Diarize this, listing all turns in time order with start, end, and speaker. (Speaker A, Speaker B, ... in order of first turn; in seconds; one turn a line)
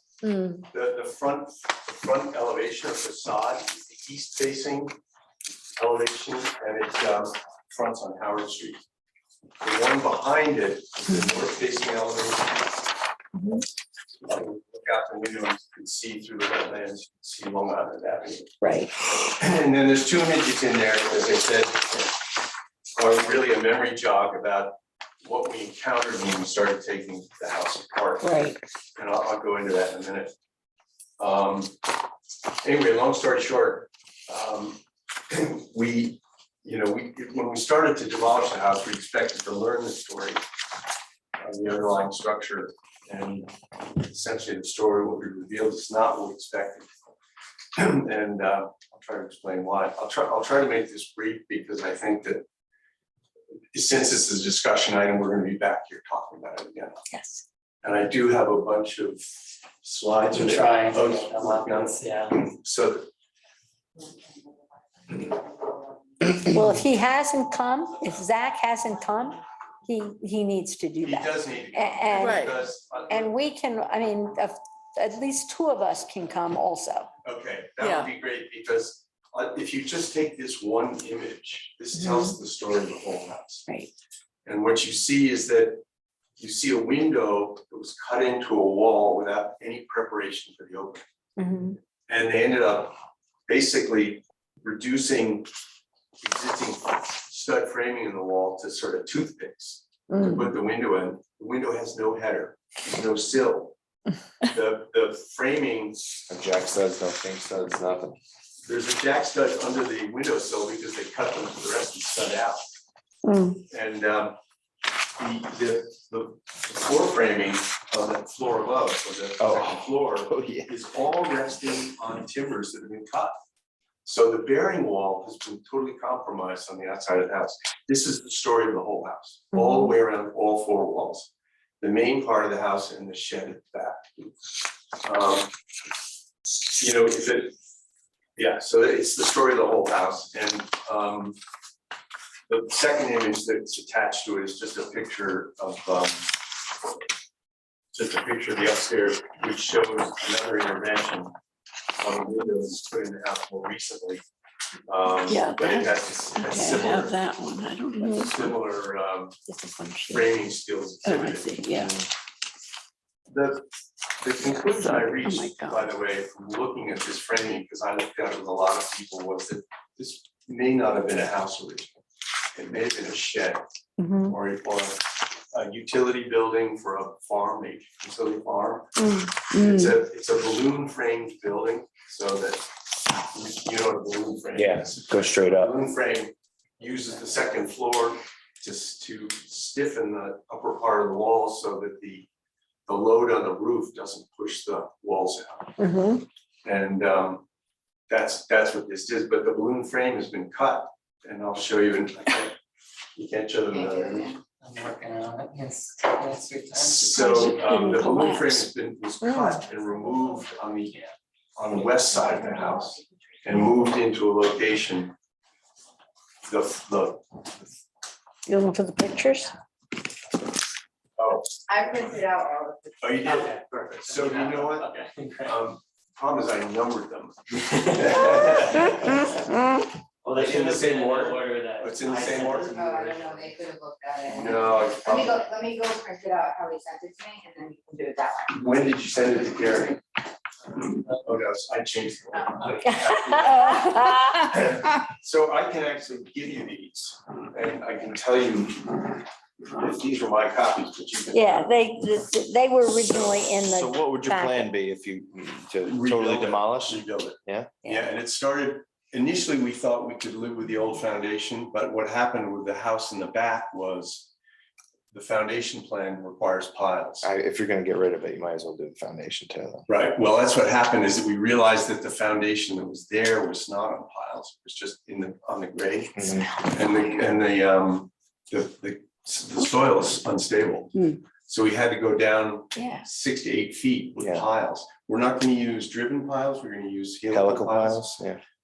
Speaker A: 0.2-0.7
Speaker B: 0.7-5.0
Speaker B: 5.8-8.8
Speaker B: 9.6-12.7
Speaker A: 13.3-13.6
Speaker B: 14.2-22.1
Speaker A: 18.6-18.9
Speaker B: 23.0-30.3
Speaker A: 28.2-28.6
Speaker B: 31.2-31.8
Speaker B: 32.6-40.4
Speaker B: 41.4-47.2
Speaker B: 47.8-52.4
Speaker B: 53.7-57.0
Speaker A: 57.1-57.4
Speaker B: 57.8-59.2
Speaker B: 59.8-63.1
Speaker C: 60.3-62.4
Speaker A: 66.4-72.6
Speaker B: 71.0-73.3
Speaker A: 73.1-77.1
Speaker B: 77.2-83.7
Speaker A: 82.0-82.3
Speaker B: 84.5-85.8
Speaker B: 86.4-91.0
Speaker A: 91.4-91.8
Speaker B: 92.1-93.0
Speaker B: 93.5-95.5
Speaker B: 96.2-103.8
Speaker A: 100.1-100.5
Speaker B: 104.4-106.0
Speaker D: 106.3-108.2
Speaker B: 108.7-112.6
Speaker A: 113.2-113.6
Speaker B: 113.7-114.4
Speaker B: 115.2-123.4
Speaker D: 119.4-120.7
Speaker B: 124.0-134.3
Speaker A: 129.5-129.9
Speaker B: 135.0-135.5
Speaker B: 136.7-137.6
Speaker B: 138.4-141.4
Speaker B: 142.5-146.9
Speaker B: 147.9-151.3
Speaker B: 152.0-154.2
Speaker B: 154.9-157.2
Speaker E: 155.3-158.4
Speaker B: 158.0-159.3
Speaker A: 159.5-160.1
Speaker B: 160.1-162.0
Speaker E: 161.1-161.9
Speaker B: 163.3-163.6
Speaker B: 164.2-172.0
Speaker E: 164.4-165.9
Speaker B: 172.6-173.6
Speaker A: 174.0-174.3
Speaker B: 174.2-182.7
Speaker A: 179.0-179.3
Speaker B: 183.2-192.3
Speaker D: 184.6-185.8
Speaker B: 192.9-195.7
Speaker A: 195.8-196.2
Speaker B: 196.7-197.4
Speaker B: 198.1-202.6
Speaker B: 203.2-204.3
Speaker F: 203.7-204.4
Speaker C: 204.6-207.0
Speaker B: 206.8-211.0
Speaker A: 207.1-208.7
Speaker A: 209.2-209.6
Speaker B: 211.6-215.1
Speaker B: 216.5-217.3
Speaker A: 218.5-219.5
Speaker B: 221.2-221.5
Speaker F: 221.7-223.2
Speaker B: 223.0-229.3
Speaker C: 223.2-225.6
Speaker C: 227.9-228.9
Speaker C: 230.2-233.6
Speaker B: 230.3-232.8
Speaker F: 232.7-238.5
Speaker B: 234.3-235.4
Speaker B: 238.5-240.0
Speaker B: 241.1-249.2
Speaker A: 242.9-244.5
Speaker B: 249.7-251.8
Speaker A: 251.3-254.7
Speaker D: 253.7-257.7
Speaker B: 255.8-264.3
Speaker B: 265.1-267.3
Speaker D: 267.2-269.9
Speaker B: 269.9-288.1
Speaker D: 276.1-276.5
Speaker A: 282.8-283.0
Speaker D: 284.2-284.5
Speaker D: 287.3-288.4